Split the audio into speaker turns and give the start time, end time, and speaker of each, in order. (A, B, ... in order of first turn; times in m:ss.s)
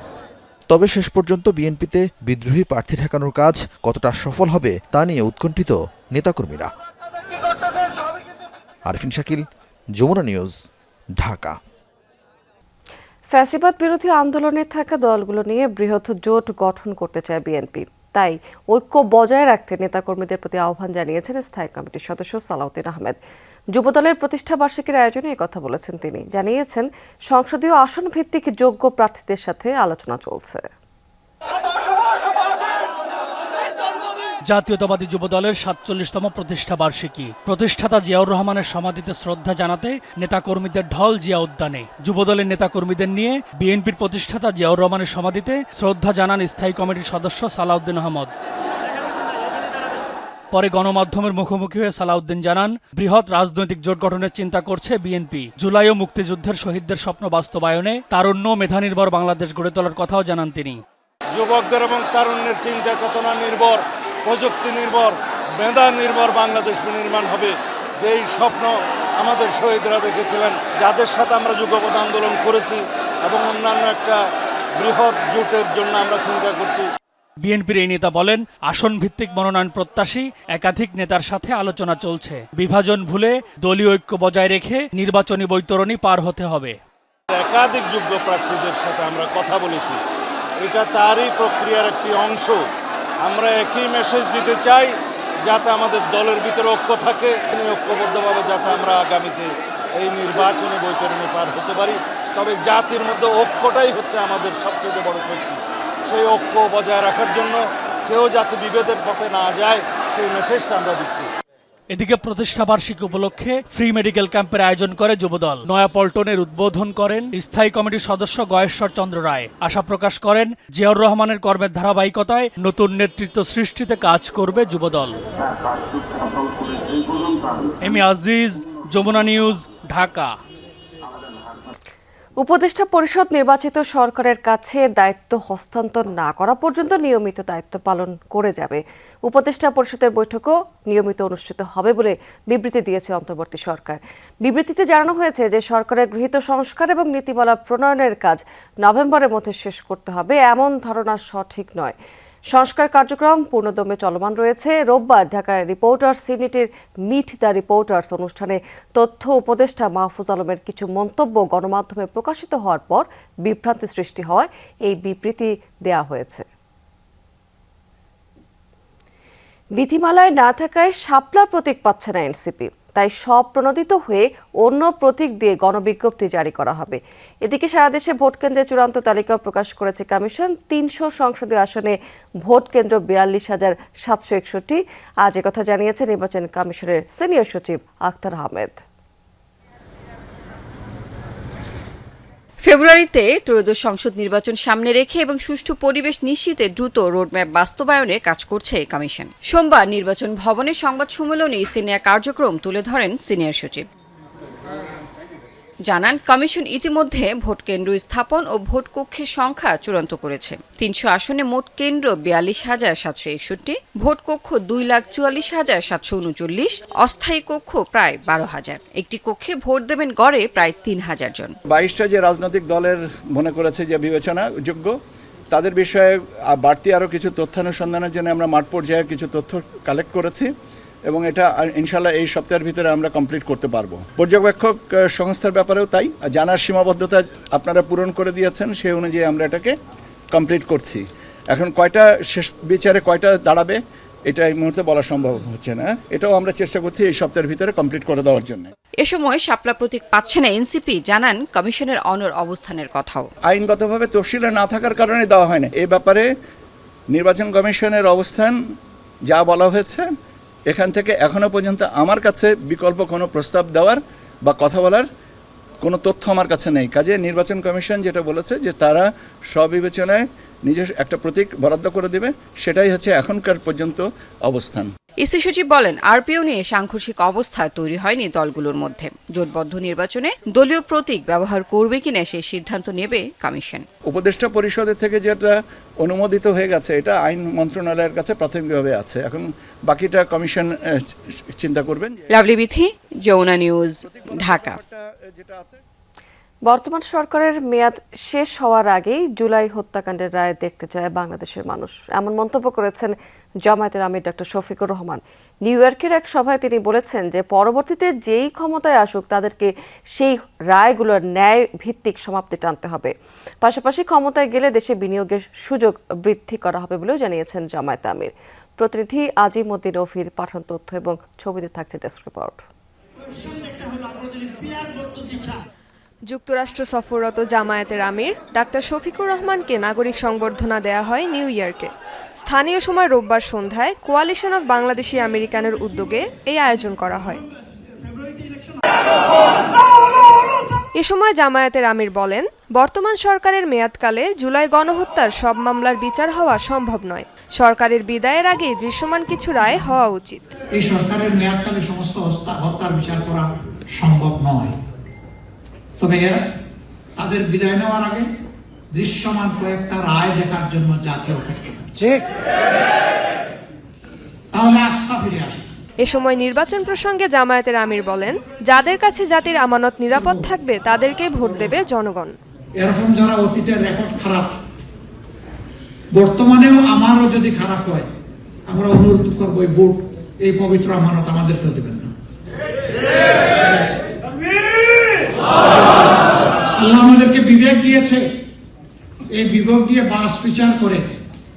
0:00.7-0:06.7 A
0:08.9-0:09.4 A
0:10.0-0:10.6 A
0:11.2-0:11.6 A
0:13.3-0:23.2 B
0:23.8-0:30.6 B
0:34.5-0:48.3 C
0:50.5-1:00.8 C
1:01.3-1:14.2 D
1:14.8-1:16.9 D
1:17.4-1:26.8 C
1:27.3-1:30.0 D
1:30.6-1:32.6 D
1:33.2-1:34.9 D
1:35.4-1:51.3 D
1:51.9-2:05.2 C
2:07.8-2:10.4 C
2:12.4-2:32.0 B
2:32.5-2:46.4 B
2:49.8-3:08.8 B
3:12.6-3:23.9 E
3:25.9-3:41.6 E
3:41.7-3:45.0 F
3:45.5-3:50.5 F
3:51.1-3:59.7 F
4:00.3-4:08.7 F
4:09.0-4:13.3 E
4:13.5-4:16.3 F
4:17.1-4:18.6 F
4:19.3-4:20.1 F
4:20.7-4:25.1 F
4:25.8-4:34.9 F
4:35.2-4:43.9 E
4:44.1-4:52.2 F
4:52.3-4:54.8 E
4:54.0-4:55.8 F
4:56.7-5:03.1 B
5:03.6-5:22.6 B
5:26.2-5:37.4 G
5:41.0-5:50.5 G
5:50.8-5:54.7 H
5:56.0-5:56.4 H
5:57.2-5:58.3 H
5:59.0-6:02.2 H
6:04.5-6:05.8 H
6:06.0-6:12.4 G
6:12.8-6:14.5 H
6:16.2-6:18.1 H
6:18.7-6:22.1 H
6:26.8-6:28.2 H
6:29.4-6:31.0 H